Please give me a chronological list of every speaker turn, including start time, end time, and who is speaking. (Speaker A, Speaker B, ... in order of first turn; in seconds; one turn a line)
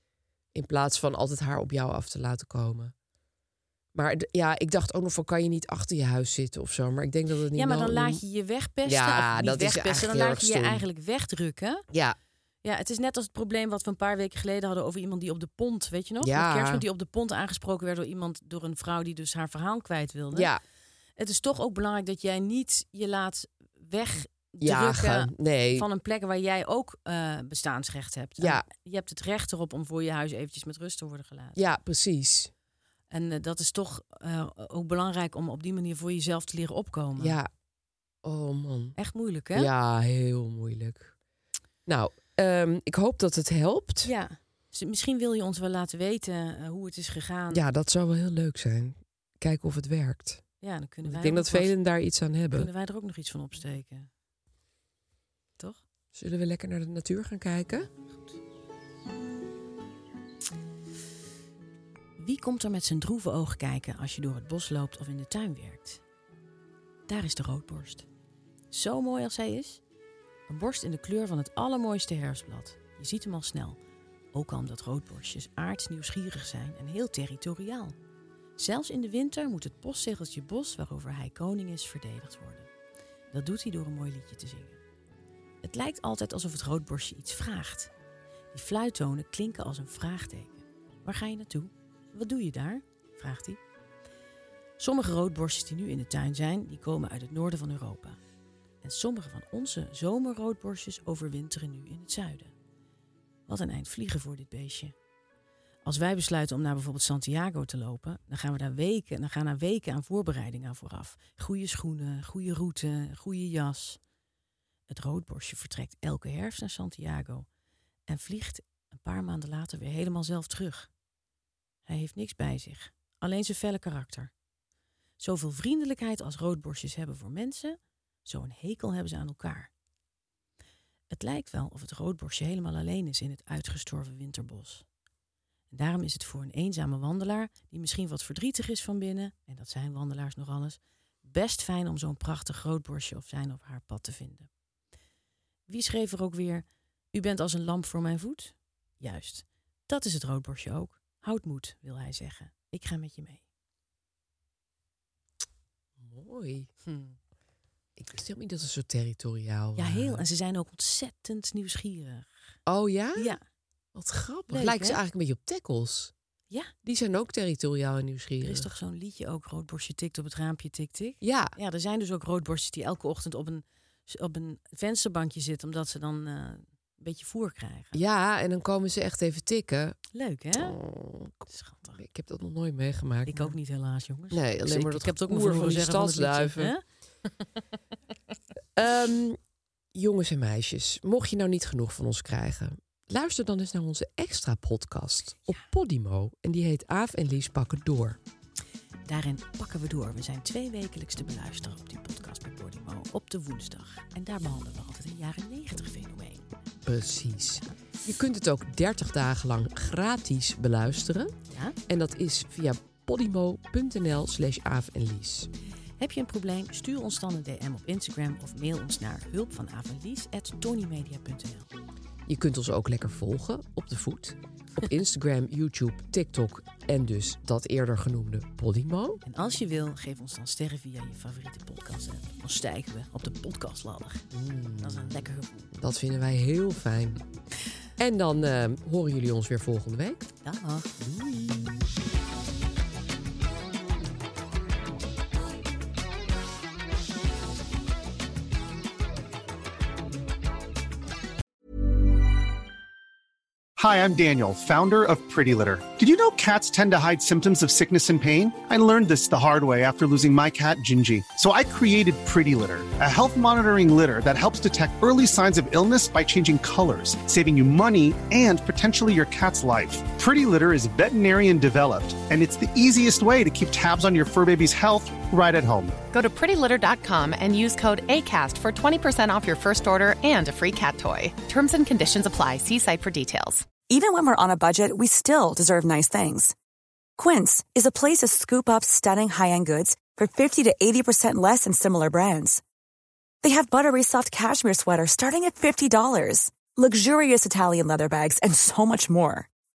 Speaker A: 0.5-2.9
Speaker A: 3.9-8.2
Speaker B: 7.5-11.8
Speaker A: 8.8-10.8
Speaker A: 11.9-12.2
Speaker B: 12.6-20.5
Speaker A: 16.2-16.8
Speaker A: 20.3-20.6
Speaker B: 21.2-31.6
Speaker A: 24.6-25.9
Speaker A: 28.4-28.6
Speaker A: 31.6-32.5
Speaker B: 33.1-37.4
Speaker A: 37.2-37.5
Speaker A: 38.2-39.0
Speaker B: 39.0-39.7
Speaker A: 39.5-41.1
Speaker A: 41.9-44.1
Speaker B: 44.0-47.6
Speaker A: 47.5-50.4
Speaker B: 50.6-51.7
Speaker A: 51.0-52.7
Speaker B: 52.5-54.1
Speaker A: 56.1-57.9
Speaker B: 62.2-66.0
Speaker B: 67.1-68.1
Speaker B: 68.7-69.8
Speaker B: 70.5-73.8
Speaker B: 74.3-78.0
Speaker B: 78.6-82.7
Speaker B: 83.3-84.8
Speaker B: 85.6-87.9
Speaker B: 88.5-93.6
Speaker B: 94.8-98.2
Speaker B: 98.8-102.5
Speaker B: 103.5-104.9
Speaker B: 105.8-114.0
Speaker B: 114.9-117.5
Speaker B: 118.1-120.9
Speaker B: 121.9-124.3
Speaker B: 125.2-129.7
Speaker B: 131.1-134.8
Speaker B: 135.7-144.5
Speaker B: 145.7-153.4
Speaker A: 156.0-156.7
Speaker B: 156.8-157.1
Speaker A: 158.0-160.2
Speaker B: 159.8-162.3
Speaker A: 162.7-163.3
Speaker A: 163.9-166.1
Speaker B: 164.5-165.0
Speaker A: 166.8-168.7
Speaker B: 168.4-178.0
Speaker A: 171.2-171.5
Speaker A: 177.9-180.0
Speaker B: 180.1-180.8
Speaker A: 180.5-183.5
Speaker B: 181.5-182.0
Speaker B: 183.3-187.4
Speaker A: 184.3-186.7
Speaker A: 188.7-189.4
Speaker A: 189.9-198.2
Speaker B: 199.1-206.4
Speaker A: 206.8-211.3
Speaker B: 211.5-211.8
Speaker A: 211.9-215.5
Speaker B: 216.0-221.7
Speaker A: 222.3-229.2
Speaker B: 229.2-234.3
Speaker A: 234.3-235.1
Speaker B: 234.8-235.7
Speaker A: 235.7-237.2
Speaker A: 238.0-240.3
Speaker B: 240.4-240.9
Speaker A: 241.0-241.7
Speaker C: 253.8-276.0
Speaker D: 276.1-283.7
Speaker E: 283.8-286.5
Speaker E: 287.2-292.6
Speaker E: 293.4-299.5